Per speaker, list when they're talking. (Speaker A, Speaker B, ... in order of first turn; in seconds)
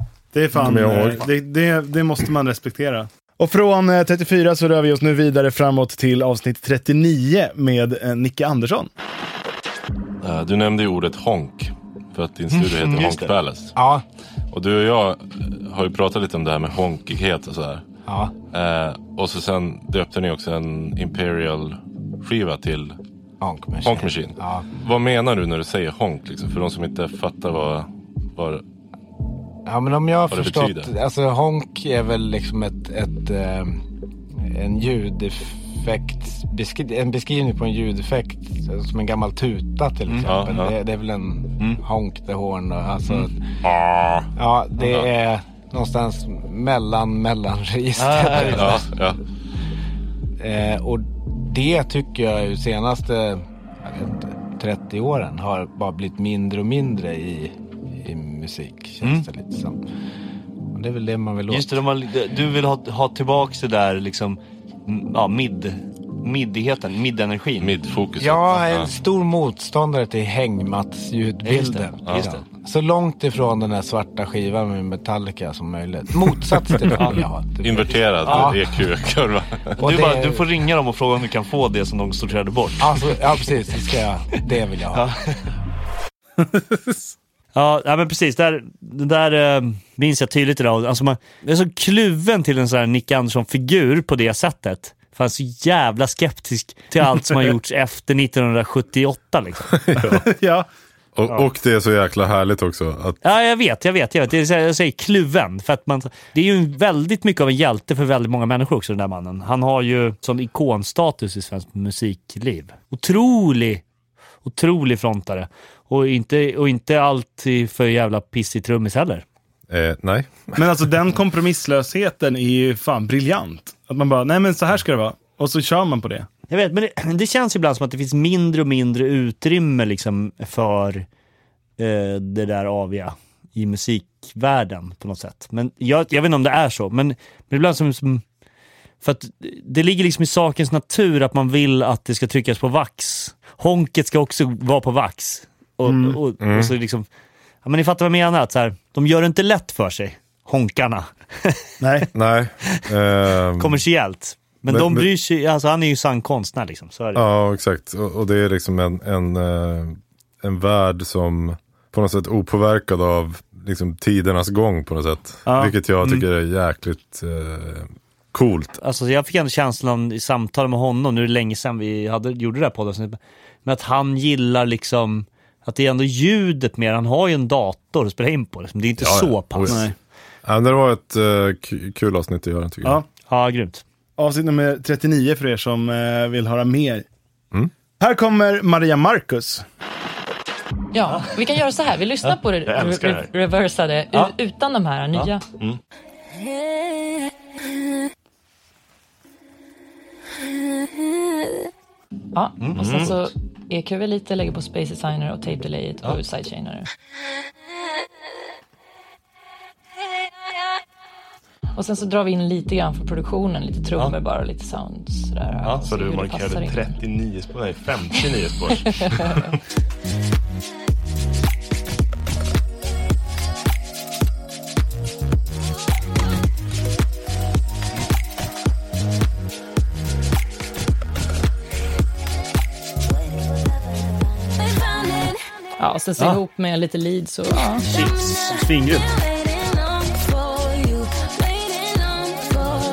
Speaker A: 0.3-8.9, 100.1-100.7, 120.5-126.3, 145.8-146.2, 151.8-152.1, 165.5-165.7, 179.7-179.9, 184.2-187.1, 188.0-189.6
Speaker B: 0.5-1.3, 99.7-100.3, 101.2-103.2, 119.7-120.6, 146.4-146.7, 152.1-153.8, 154.7-155.1, 157.1-168.8, 179.0-179.9, 180.4-183.0
Speaker C: 10.2-13.7, 14.5-17.8, 18.5-23.0, 23.8-28.6, 30.3-30.9, 40.2-40.7, 43.1-44.2, 44.8-45.1, 48.3-49.2, 67.6-68.9, 77.6-79.7
Speaker D: 12.8-13.3, 40.1-40.4, 48.0-48.8, 59.0-59.3, 61.5-67.7, 71.4-72.4, 76.9-77.2, 78.2-78.5, 79.8-83.5, 84.9-85.4, 87.5-99.7, 103.2-113.8, 114.4-119.2, 126.5-131.1, 131.8-138.2, 139.0-147.1, 147.6-151.7, 153.6-157.2, 168.8-179.8, 183.3-183.8, 202.6-203.1, 215.6-215.9, 237.8-239.1
Speaker E: 13.7-14.0, 18.1-18.3, 23.4-24.7, 29.6-33.8, 34.4-43.4, 44.4-48.9, 50.4-59.8, 60.7-61.8, 68.2-78.6, 79.8-80.5, 82.8-85.1
Speaker F: 190.9-195.5, 202.3-206.9, 211.8-217.0, 219.0-219.4, 235.8-237.9
Speaker G: 192.6-193.3, 202.7-203.2, 215.8-219.4